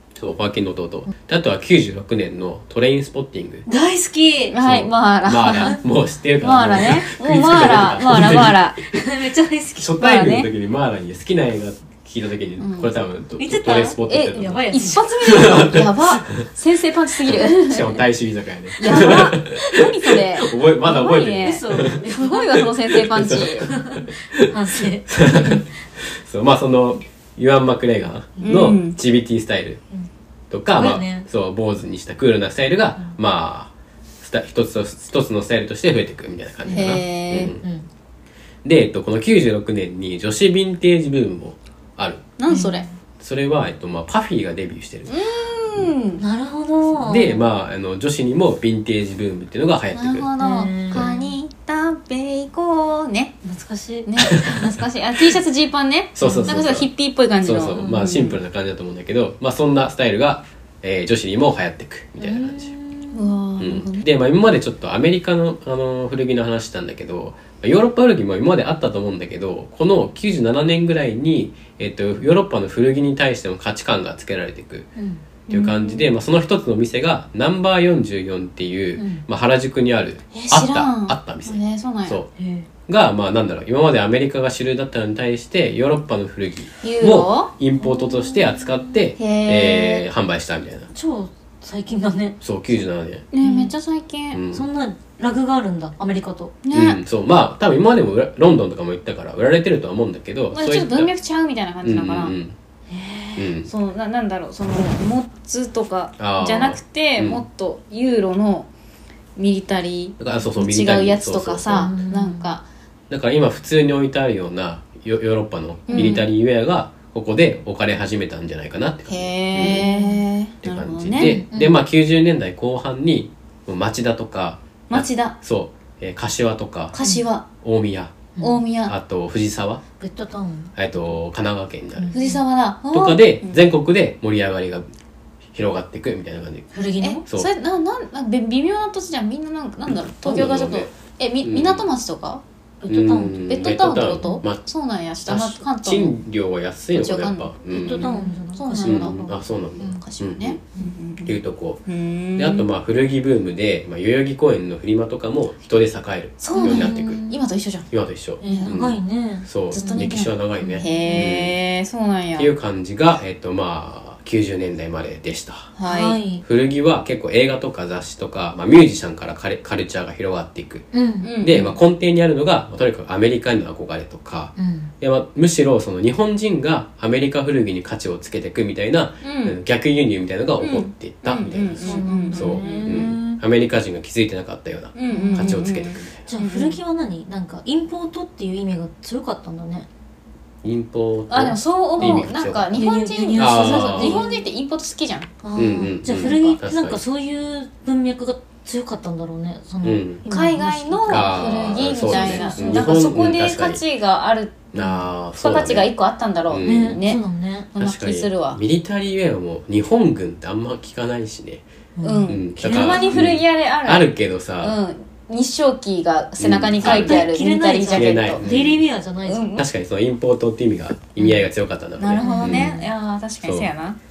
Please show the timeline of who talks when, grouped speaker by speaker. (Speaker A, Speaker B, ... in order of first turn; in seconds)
Speaker A: 0.1-3.7, 4.6-9.0, 9.8-14.7, 15.2-16.4, 17.2-22.0, 22.6-29.8, 30.5-37.6, 38.6-42.2, 43.2-45.1, 47.0-50.3, 54.2-54.6, 56.1-56.9, 57.4-62.7, 63.6-74.9, 75.5-82.3, 82.9-90.9, 92.4-93.3, 94.3-94.7, 96.7-101.1, 101.8-102.6, 103.4-103.7, 106.2-107.4, 110.2-111.9, 113.1-119.9, 120.6-127.0, 127.6-128.3, 128.9-129.8, 130.8-132.2, 132.9-134.8, 135.5-136.7, 139.9-140.9, 141.4-141.9, 142.9-144.6, 145.3-148.1, 148.8-150.6, 151.3-151.8, 152.4-157.2, 157.9-161.6, 162.4-165.7, 166.4-170.9, 171.4-186.2, 190.6-192.7, 193.3-194.2, 195.6-197.0, 199.8-200.2, 201.1-203.8, 204.7-205.9, 206.5-207.0, 207.8-211.7, 212.3-214.8, 216.4-217.3, 217.9-218.8, 219.6-222.8, 223.4-223.7
Speaker B: 3.7-4.6, 8.9-10.0, 13.4-15.7, 18.8-19.6, 21.4-22.6, 23.7-25.7, 30.8-31.3, 36.7-37.0, 37.6-37.9, 42.5-42.9, 46.2-47.5, 50.4-51.4, 53.4-54.5, 56.2-56.5, 57.8-58.3, 62.2-63.4, 79.0-79.2, 82.4-82.7, 87.8-88.8, 90.9-92.4, 93.4-93.7, 94.5-96.5, 111.8-112.5, 115.9-116.2, 119.6-120.2, 121.2-121.8, 128.4-128.6, 130.0-130.7, 132.0-132.4, 136.7-137.2, 142.8-143.5, 147.7-149.4, 156.5-157.4, 158.4-161.3, 165.9-166.4, 170.9-171.3, 174.6-174.9, 181.8-183.4, 185.1-185.6, 186.3-189.9, 192.0-194.5, 195.4-203.1, 206.6-207.7, 212.0-213.3, 216.8-219.5, 222.2-222.9
Speaker C: 4.5-5.8, 6.4-9.0, 10.0-10.5, 12.6-12.9, 14.1-18.0, 18.8-23.7, 28.4-29.0, 36.7-37.5, 42.4-42.9, 45.1-46.2, 50.0-53.4, 54.0-58.3, 63.1-64.0, 75.5-76.1, 80.3-82.2, 86.8-87.5, 89.2-90.1, 93.3-94.4, 96.6-97.0, 100.5-102.3, 102.9-108.7, 109.4-112.7, 115.9-116.3, 119.1-121.3, 124.9-125.4, 126.9-127.5, 128.4-128.9, 132.1-133.6, 137.0-142.4, 143.5-146.2, 146.9-152.7, 156.4-157.9, 158.4-158.7, 159.7-162.5, 165.8-166.2, 171.2-171.8, 179.2-179.6, 180.6-183.2, 184.9-186.8, 191.3-195.3, 196.1-196.6, 200.3-204.7, 205.3-207.2, 207.7-208.6, 212.0-218.4, 219.3-219.7, 222.0-224.0